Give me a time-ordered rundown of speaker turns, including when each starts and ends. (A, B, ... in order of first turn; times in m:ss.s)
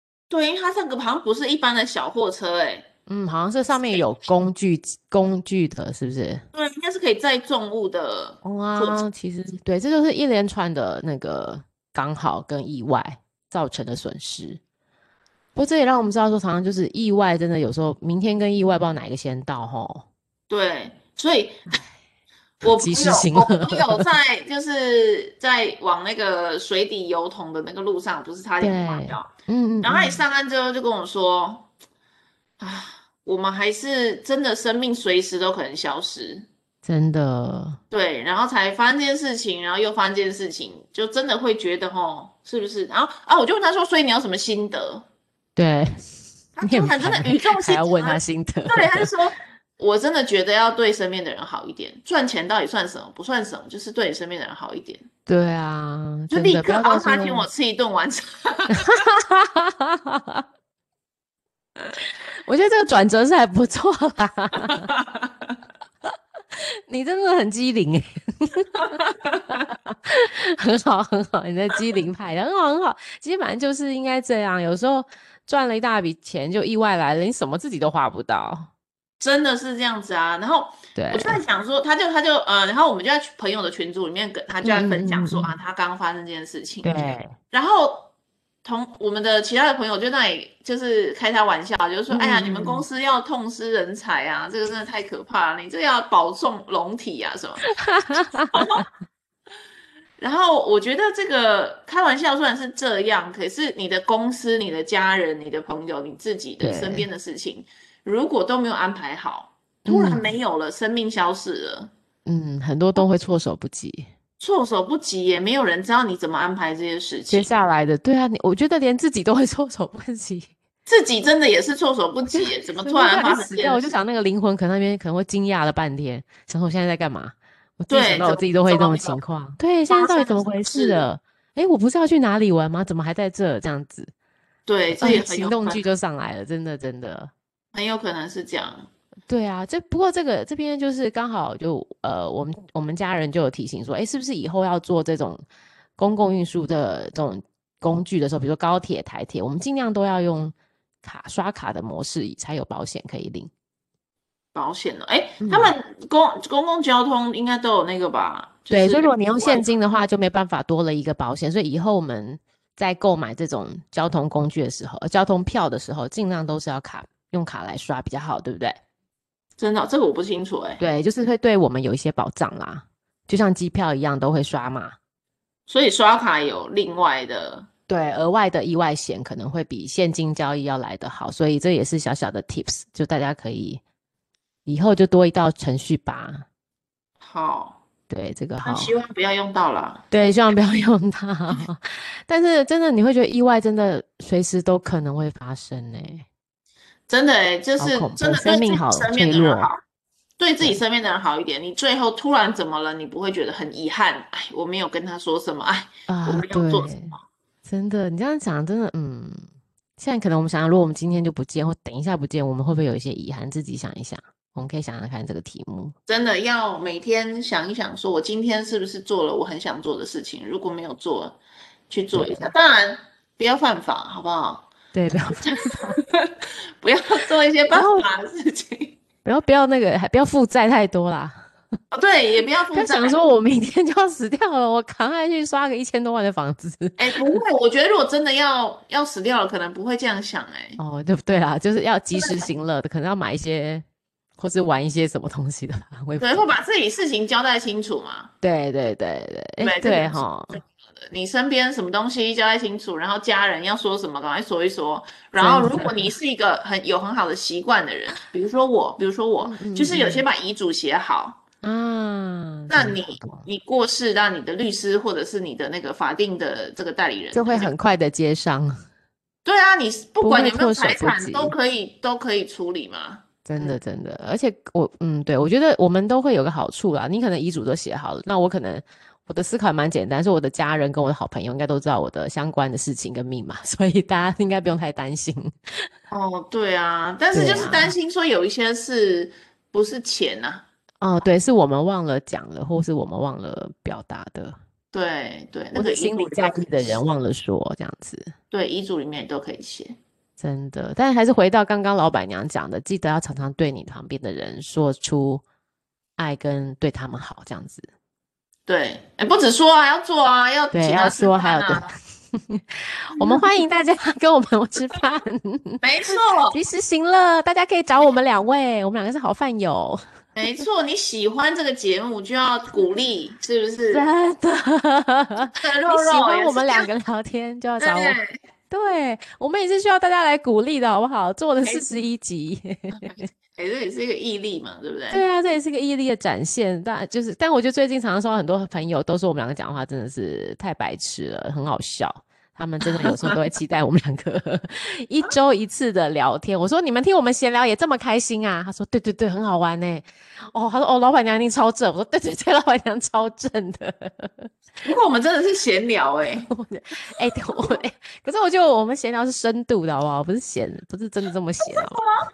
0:00.3-0:02.9 A
0:03.1-0:06.4 B
0:06.5-0:09.0 A
0:08.4-0:14.6 B
0:15.5-0:20.1 B
0:20.5-0:21.6 A
0:22.6-0:24.1 B
0:22.6-0:29.3 A
0:28.6-0:30.2 B
0:29.8-0:31.7 A
0:32.6-0:36.5 A
0:36.8-0:37.8 B
0:37.9-0:45.0 A
0:45.6-0:46.0 B
0:46.6-0:55.0 A
0:46.6-0:49.1 B
0:55.3-0:57.5 B
0:56.3-0:59.0 A
0:58.7-1:00.4 B
1:02.4-1:04.9 B
1:04.6-1:05.5 A
1:06.6-1:18.7 B
1:08.8-1:09.6 A
1:19.2-1:28.1 A
1:21.0-1:21.4 B
1:24.6-1:25.5 B
1:26.8-1:27.3 B
1:28.6-1:37.7 A
1:32.1-1:32.8 B
1:37.7-1:38.8 B
1:38.5-1:38.8 A
1:40.2-1:51.9 A
1:46.6-1:47.1 B
1:49.8-1:50.3 B
1:52.2-1:54.1 B
1:54.4-1:57.5 A
1:57.3-2:00.5 B
2:00.9-2:04.0 A
2:02.3-2:14.1 B
2:07.9-2:09.2 A
2:09.9-2:11.0 A
2:14.7-2:15.8 A
2:14.9-2:17.3 B
2:17.7-2:18.9 A
2:19.3-2:25.4 B
2:26.0-2:33.5 B
2:34.5-2:39.7 A
2:35.4-2:35.7 B
2:38.7-2:48.8 B
2:49.6-2:50.8 A
2:50.8-2:55.0 B
2:55.7-2:57.7 A
2:57.9-3:03.8 B
3:04.6-3:06.4 B
3:07.2-3:07.8 A
3:08.1-3:08.9 B
3:08.6-3:10.0 A
3:10.1-3:16.2 B
3:17.1-3:19.8 A
3:17.8-3:19.7 B
3:20.4-3:27.2 A
3:26.1-3:29.4 B
3:30.0-3:35.9 B
3:36.1-3:41.4 A
3:41.9-3:44.7 A
3:42.1-3:42.5 B
3:44.9-3:46.0 B
3:45.4-3:49.0 A
3:47.7-3:48.0 B
3:49.2-3:51.4 B
3:51.9-3:53.2 A
3:52.7-3:57.4 B
3:57.0-4:00.8 A
4:00.8-4:03.8 B
4:02.1-4:02.4 A
4:04.4-4:06.5 B
4:06.2-4:08.3 A
4:08.4-4:10.6 B
4:09.6-4:21.4 A
4:15.4-4:16.1 B
4:19.4-4:20.2 B
4:21.6-4:23.4 B
4:22.7-4:27.7 A
4:27.3-4:28.8 B
4:29.4-4:33.8 A
4:30.2-4:31.5 B
4:33.4-4:45.5 B
4:46.1-4:50.6 A
4:47.3-4:47.9 B
4:51.0-4:54.6 B
4:54.9-4:57.0 A
4:55.7-4:58.3 B
4:58.5-5:00.0 A
5:00.4-5:05.4 B
5:06.2-5:07.9 B
5:08.7-5:11.9 A
5:10.7-5:15.8 B
5:13.2-5:13.5 A
5:15.8-5:16.6 A
5:16.5-5:20.0 B
5:20.4-5:24.0 A
5:23.9-5:28.2 B
5:25.5-5:26.9 A
5:27.8-5:28.3 A
5:28.7-5:33.3 B
5:33.0-5:35.2 A
5:35.1-5:54.5 B
5:43.0-5:43.3 A
5:54.8-5:56.5 A
5:56.5-6:02.0 B
6:01.6-6:02.1 A